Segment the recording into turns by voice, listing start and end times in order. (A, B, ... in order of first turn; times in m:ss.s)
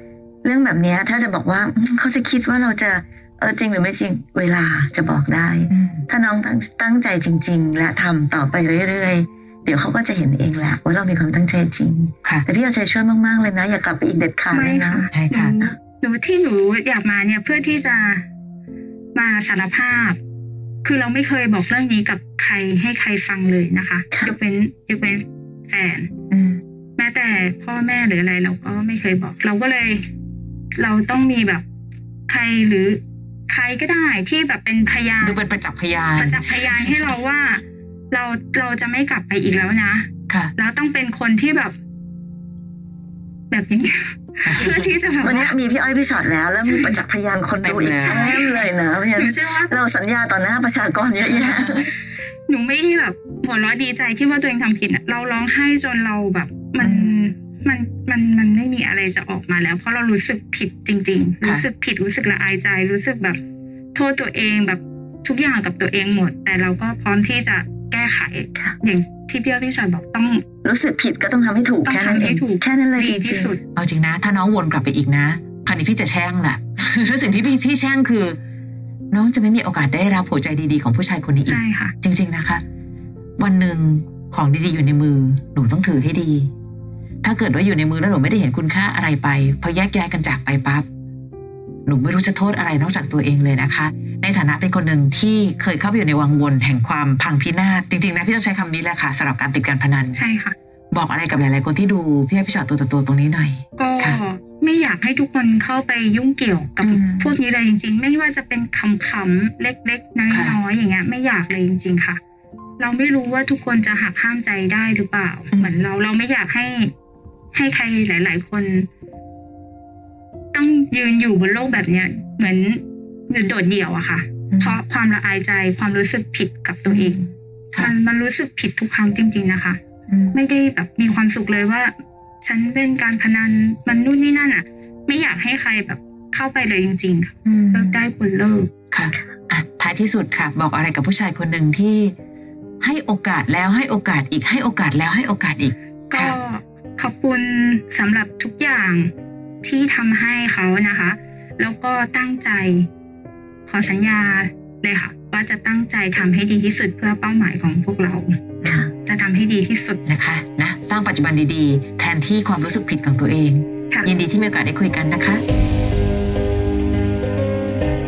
0:00.4-0:15.7 A
0:05.7-0:06.0 B
0:14.5-0:18.2 C
0:15.1-0:15.6 B
0:19.1-0:20.2 C
0:20.8-0:26.1 C
0:26.3-0:26.6 B
0:27.0-0:30.0 C
0:30.7-0:31.6 C
0:32.3-0:35.4 C
0:35.2-0:37.1 B
0:36.2-0:41.7 C
0:43.5-0:45.5 C
0:44.4-0:44.9 B
0:45.2-0:51.9 A
0:46.6-0:47.0 C
0:47.6-0:48.4 B
0:48.0-0:49.8 C
0:51.2-0:51.9 B
0:52.5-1:03.4 C
0:56.8-0:57.2 B
1:03.9-1:10.4 C
1:10.6-1:13.5 A
1:11.8-1:13.6 C
1:13.8-1:18.4 B
1:19.1-1:22.6 B
1:21.4-1:21.9 C
1:23.4-1:26.5 B
1:27.2-1:30.8 B
1:31.8-1:40.2 B
1:40.1-1:40.5 C
1:40.9-1:44.2 B
1:43.8-1:52.2 C
1:46.8-1:47.3 B
1:50.3-1:50.6 B
1:52.8-1:56.9 C
1:55.5-1:55.8 B
1:57.5-1:58.9 C
2:00.5-2:07.2 C
2:04.5-2:04.8 B
2:06.9-2:07.9 B
2:07.8-2:09.8 C
2:10.1-2:10.4 B
2:10.3-2:18.7 C
2:17.4-2:18.0 B
2:18.9-2:22.1 B
2:22.8-2:26.4 B
2:26.1-2:29.1 C
2:29.6-2:32.9 C
2:33.6-2:38.4 C
2:38.6-2:38.9 B
2:39.0-2:40.0 C
2:40.0-2:45.4 B